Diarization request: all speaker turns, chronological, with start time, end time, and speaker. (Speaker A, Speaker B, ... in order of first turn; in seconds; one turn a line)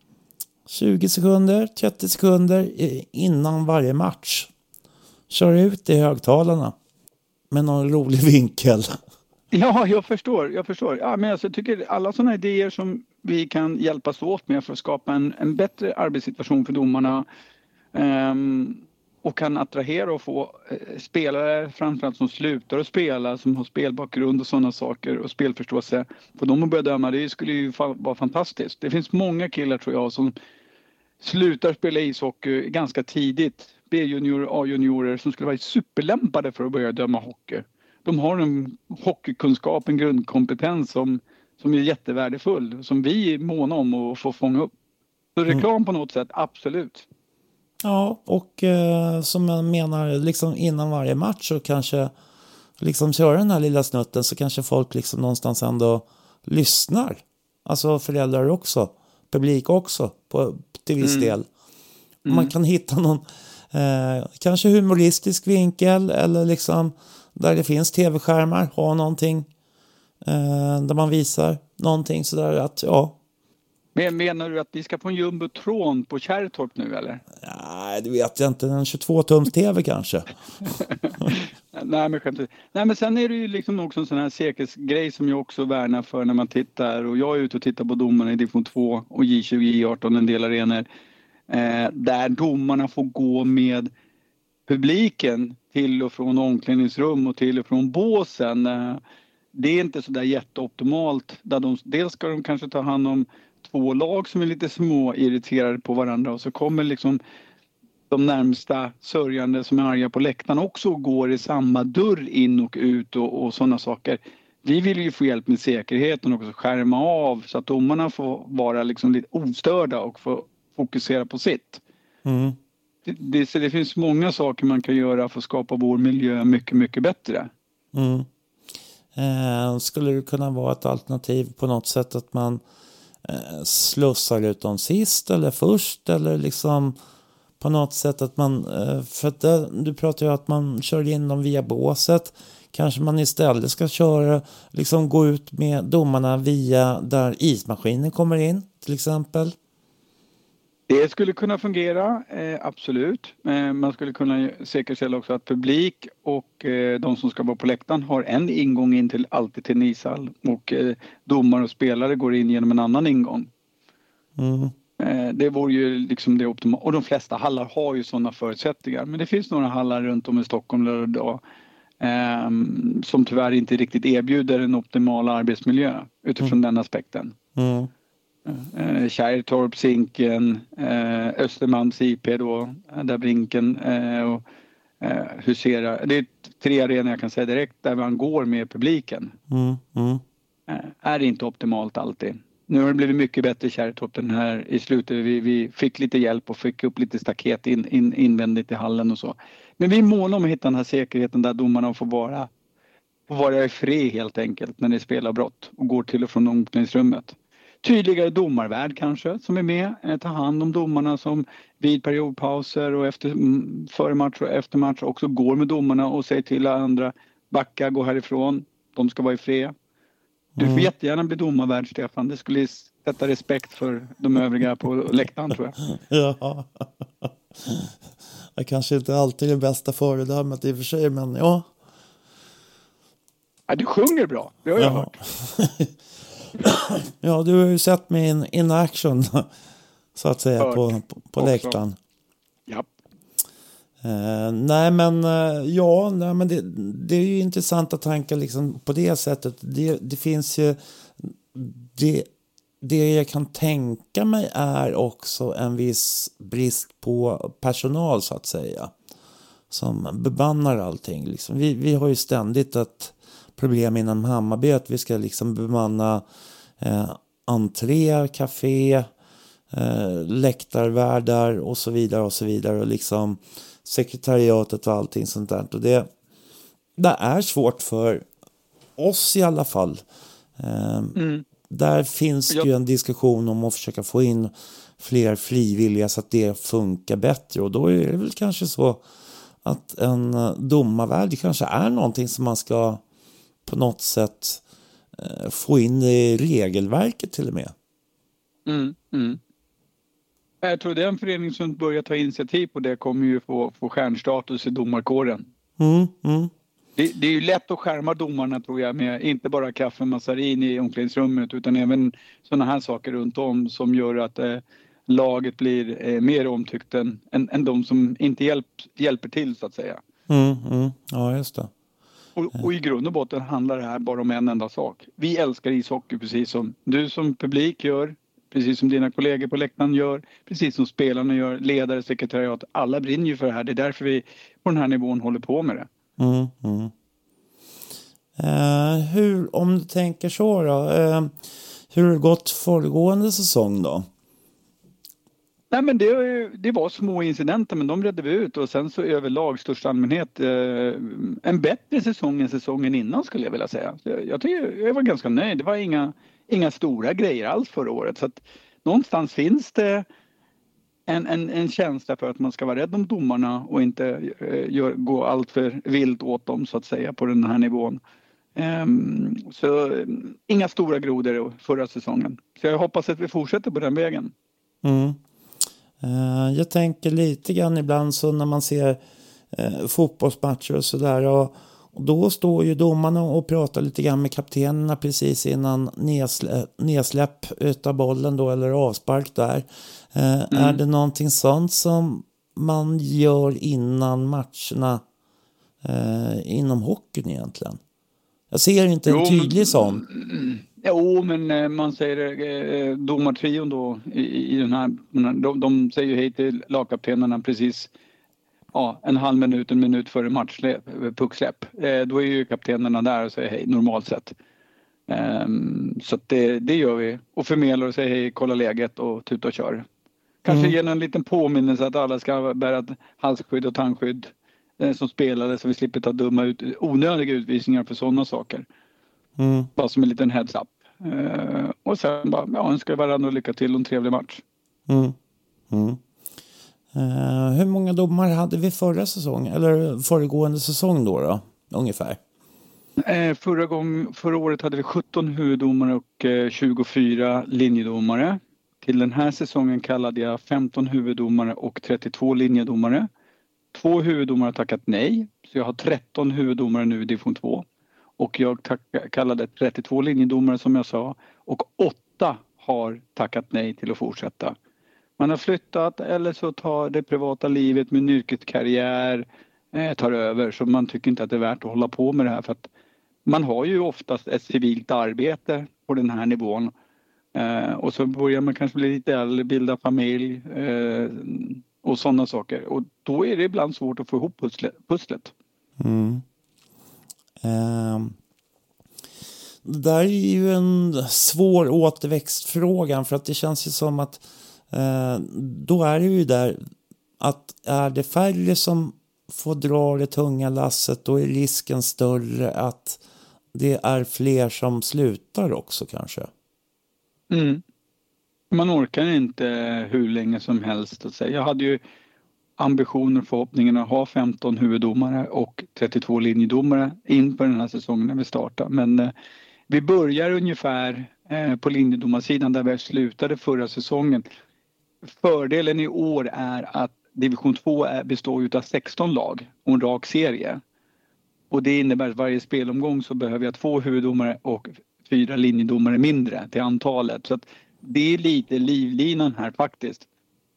Speaker A: 0.7-4.5
Speaker A: 5.3-6.8
Speaker A: 7.5-8.9
Speaker B: 9.5-17.2
Speaker B: 17.9-30.3
Speaker B: 31.2-44.7
Speaker B: 45.4-47.1
Speaker A: 47.8-52.1
Speaker A: 52.8-61.5
Speaker B: 61.0-61.3
Speaker B: 62.2-62.5
Speaker A: 62.3-69.5
Speaker A: 70.3-73.2
Speaker B: 74.0-77.2
Speaker A: 77.4-80.3
Speaker B: 80.7-90.8
Speaker B: 91.5-93.9
Speaker B: 94.7-99.0
Speaker B: 99.5-107.2
Speaker B: 108.1-121.8
Speaker A: 122.2-122.6
Speaker B: 123.1-127.5
Speaker A: 127.9-128.3
Speaker A: 129.2-132.6
Speaker A: 133.2-137.0
Speaker A: 137.6-149.6
Speaker B: 150.9-163.5
Speaker A: 164.4-164.7
Speaker B: 165.0-171.4
Speaker B: 172.0-177.4
Speaker A: 177.6-177.9
Speaker B: 178.5-184.4
Speaker B: 185.0-189.3
Speaker A: 189.5-190.2
Speaker B: 190.7-202.5
Speaker B: 203.3-219.7
Speaker A: 220.6-220.9
Speaker B: 220.6-225.8
Speaker A: 226.0-227.9
Speaker A: 228.6-231.7
Speaker B: 233.7-235.2
Speaker A: 234.8-235.9
Speaker A: 236.6-239.5
Speaker A: 240.2-242.0
Speaker B: 240.6-241.8
Speaker A: 244.0-252.3
Speaker A: 252.8-258.9
Speaker A: 259.7-266.2
Speaker A: 266.8-269.1
Speaker A: 269.7-276.1
Speaker A: 277.0-278.3
Speaker A: 279.0-280.0
Speaker A: 280.6-281.2
Speaker B: 281.2-281.5
Speaker A: 281.7-289.0
Speaker A: 289.6-293.0
Speaker A: 293.7-294.6
Speaker A: 295.2-297.7
Speaker B: 298.7-299.4
Speaker B: 300.6-305.5
Speaker A: 305.8-306.5
Speaker B: 307.0-320.0
Speaker A: 320.3-321.7
Speaker B: 322.4-335.9
Speaker A: 336.2-336.9
Speaker A: 338.4-341.4
Speaker A: 341.9-344.1
Speaker B: 345.7-360.1
Speaker B: 361.1-368.0
Speaker B: 368.6-374.3
Speaker A: 374.8-375.2
Speaker A: 376.0-379.0
Speaker A: 379.5-395.0
Speaker B: 390.5-390.8
Speaker A: 395.8-397.8
Speaker A: 398.5-400.0
Speaker B: 399.1-407.9
Speaker B: 408.7-414.3
Speaker B: 415.1-419.9
Speaker B: 420.4-428.6
Speaker A: 420.5-420.8
Speaker A: 429.4-429.7
Speaker B: 429.8-434.4
Speaker A: 434.9-435.2
Speaker A: 435.7-436.0
Speaker A: 436.9-442.2
Speaker B: 443.0-453.1
Speaker B: 453.7-457.7
Speaker B: 458.2-464.6
Speaker B: 465.2-472.7
Speaker B: 473.2-476.7
Speaker B: 477.4-485.3
Speaker A: 485.8-486.2
Speaker A: 487.4-488.1
Speaker A: 489.6-496.6
Speaker A: 497.2-503.0
Speaker A: 503.5-506.3
Speaker B: 507.3-507.6
Speaker B: 508.5-511.8
Speaker B: 512.6-519.1
Speaker B: 519.7-524.2
Speaker B: 525.1-530.6
Speaker B: 531.5-540.1